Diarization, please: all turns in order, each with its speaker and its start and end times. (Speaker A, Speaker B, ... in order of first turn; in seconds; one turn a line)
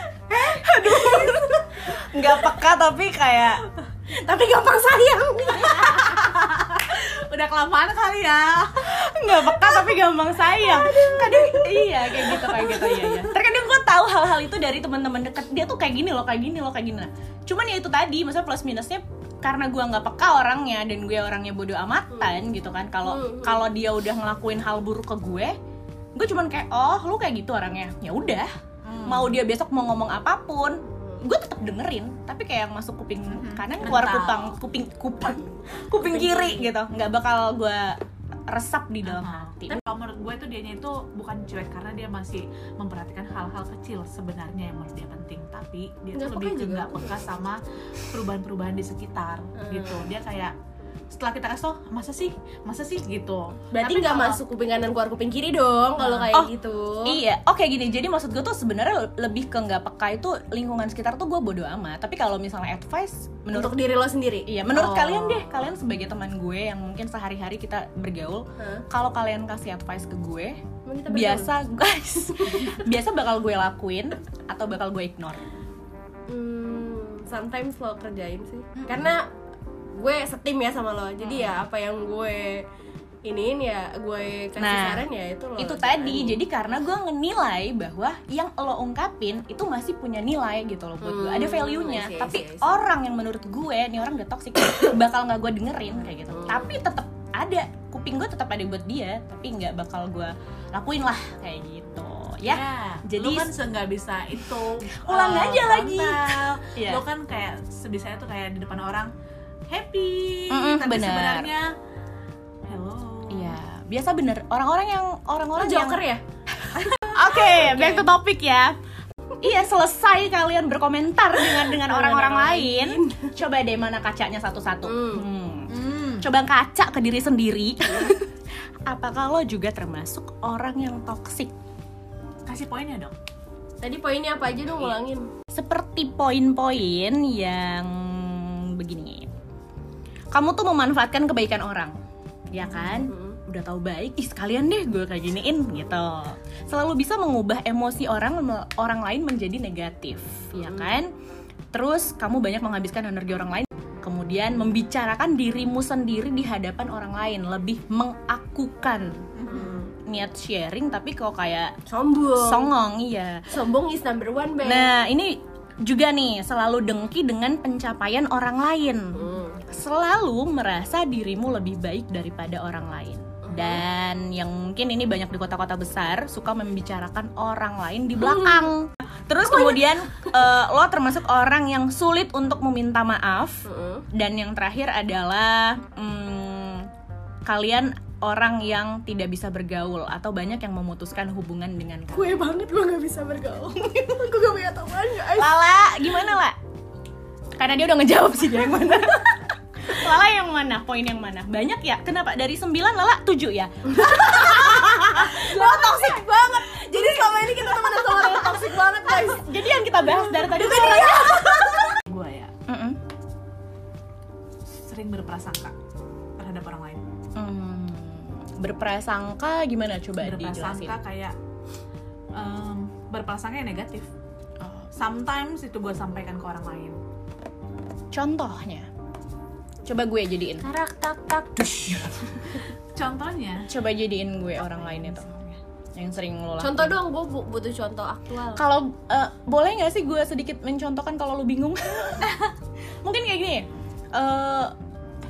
Speaker A: 0.4-1.8
Speaker B: 0.7-3.6
Speaker A: 4.2-6.3
Speaker C: 5.9-9.6
Speaker B: 8.8-25.6
Speaker C: 10.5-13.3
Speaker A: 10.9-11.6
Speaker A: 23.0-23.7
Speaker B: 26.2-28.5
Speaker C: 28.9-29.4
Speaker B: 29.1-38.0
Speaker A: 30.9-31.2
Speaker C: 33.3-34.5
Speaker A: 36.0-36.7
Speaker B: 38.5-39.8
Speaker C: 39.0-50.5
Speaker A: 46.1-47.2
Speaker A: 49.6-50.0
Speaker C: 51.1-54.4
Speaker A: 53.7-57.2
Speaker C: 56.0-56.3
Speaker B: 57.1-63.8
Speaker A: 63.5-65.5
Speaker B: 64.5-75.4
Speaker A: 68.6-68.8
Speaker A: 70.8-71.5
Speaker A: 72.4-72.8
Speaker A: 76.3-79.3
Speaker C: 78.8-79.1
Speaker A: 79.9-82.6
Speaker B: 81.2-81.5
Speaker A: 83.3-86.4
Speaker B: 84.6-85.0
Speaker B: 85.6-103.5
Speaker A: 91.0-92.7
Speaker A: 96.3-96.7
Speaker C: 102.5-109.1
Speaker B: 104.9-107.0
Speaker C: 109.7-111.7
Speaker B: 110.5-111.5
Speaker C: 112.7-113.6
Speaker B: 113.3-116.0
Speaker A: 115.6-116.2
Speaker B: 116.5-118.8
Speaker A: 116.9-118.1
Speaker B: 119.4-128.3
Speaker A: 121.5-123.3
Speaker A: 124.8-125.2
Speaker C: 125.7-126.3
Speaker B: 128.9-131.5
Speaker C: 132.5-133.1
Speaker A: 133.8-135.3
Speaker B: 135.5-139.3
Speaker B: 140.3-141.9
Speaker B: 142.5-151.1
Speaker A: 142.8-143.4
Speaker A: 150.5-151.0
Speaker B: 151.7-159.3
Speaker C: 159.4-159.8
Speaker A: 159.5-159.9
Speaker B: 159.9-161.8
Speaker A: 161.9-162.7
Speaker B: 162.4-163.4
Speaker A: 163.5-164.9
Speaker B: 164.6-186.9
Speaker A: 169.1-169.6
Speaker A: 173.4-173.8
Speaker A: 178.2-178.7
Speaker A: 179.5-179.8
Speaker A: 183.7-184.1
Speaker B: 187.5-192.4
Speaker A: 192.1-195.6
Speaker B: 195.3-196.6
Speaker B: 197.6-206.2
Speaker A: 203.9-212.0
Speaker B: 207.0-211.6
Speaker C: 212.1-212.5
Speaker B: 212.7-213.0
Speaker C: 214.7-215.8
Speaker C: 216.4-217.0
Speaker B: 217.4-221.0
Speaker C: 220.2-221.3
Speaker C: 222.3-224.1
Speaker B: 224.6-224.9
Speaker C: 224.9-227.0
Speaker B: 228.1-228.9
Speaker B: 229.9-230.7
Speaker A: 230.6-232.7
Speaker C: 232.9-233.7
Speaker B: 233.7-235.3
Speaker C: 234.8-235.6
Speaker B: 235.9-236.9
Speaker A: 236.6-238.6
Speaker B: 238.6-242.4
Speaker B: 243.0-244.7